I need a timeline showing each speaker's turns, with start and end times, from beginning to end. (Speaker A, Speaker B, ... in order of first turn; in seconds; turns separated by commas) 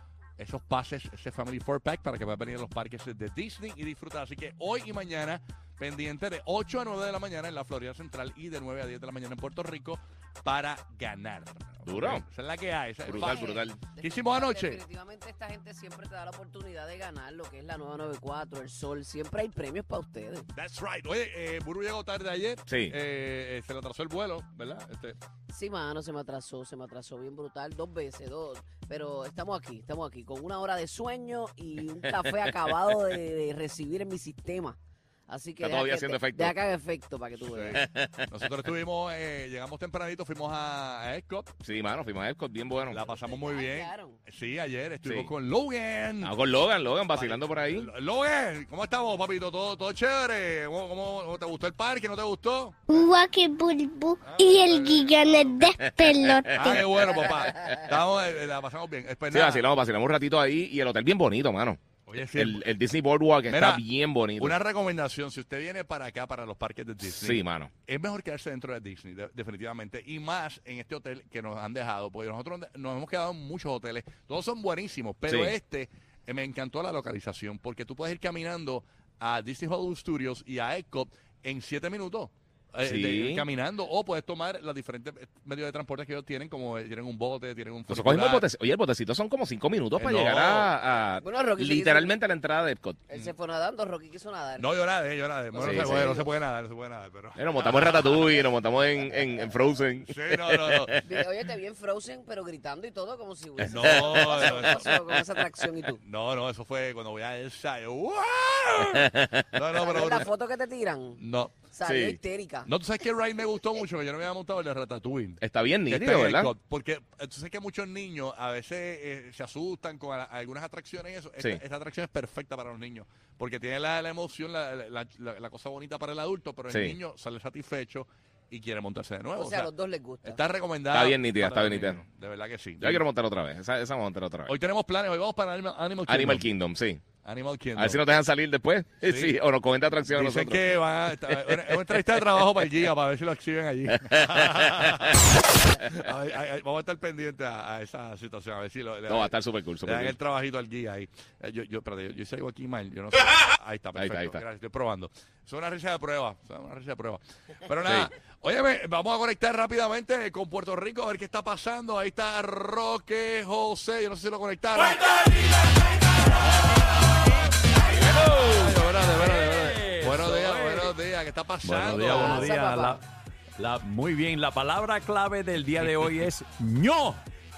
Speaker A: 0.4-14.8, Speaker B: 11.8-12.2, Speaker B: 13.1-13.8, Speaker C: 13.1-20.5, Speaker A: 20.5-25.2, Speaker B: 22.7-22.9, Speaker C: 25.5-34.8, Speaker C: 35.3-37.8, Speaker B: 35.6-36.6, Speaker B: 37.7-38.3, Speaker A: 38.3-41.5, Speaker B: 41.6-43.0, Speaker A: 42.9-46.4, Speaker C: 43.2-44.2, Speaker B: 45.0-45.3, Speaker B: 46.2-47.9, Speaker A: 47.1-52.8, Speaker D: 52.9-56.8, Speaker A: 54.2-55.7, Speaker B: 55.8-57.7, Speaker A: 56.5-59.7, Speaker B: 59.3-64.6, Speaker A: 62.1-62.7, Speaker A: 63.5-63.9, Speaker A: 64.4-88.5, Speaker B: 67.0-67.7, Speaker B: 75.3-75.5, Speaker B: 82.8-83.4, Speaker B: 87.9-93.0, Speaker A: 90.0-90.7, Speaker C: 91.2-92.2, Speaker C: 93.1-94.7, Speaker A: 94.6-98.3, Speaker C: 95.5-96.3, Speaker B: 95.6-96.3, Speaker B: 97.4-101.1, Speaker A: 100.1-101.0, Speaker C: 101.0-106.0, Speaker A: 103.6-105.0, Speaker B: 103.7-105.0, Speaker A: 106.0-110.3, Speaker C: 109.8-111.2, Speaker A: 111.2-111.5, Speaker C: 111.7-112.7, Speaker B: 111.8-112.2, Speaker A: 112.7-129.7, Speaker B: 115.4-116.5, Speaker B: 126.7-127.0, Speaker C: 129.4-130.4, Speaker A: 130.2-133.1, Speaker B: 130.9-132.0, Speaker B: 132.8-134.5, Speaker A: 134.5-136.5, Speaker B: 136.1-137.0, Speaker A: 137.2-138.0, Speaker B: 137.8-140.8, Speaker A: 139.0-139.4, Speaker A: 140.1-165.3, Speaker B: 141.3-141.6, Speaker B: 149.1-150.2, Speaker B: 154.0-154.4, Speaker E: 168.1-170.9, Speaker A: 168.5-172.6, Speaker E: 171.6-173.0, Speaker C: 172.0-173.0, Speaker E: 173.6-177.2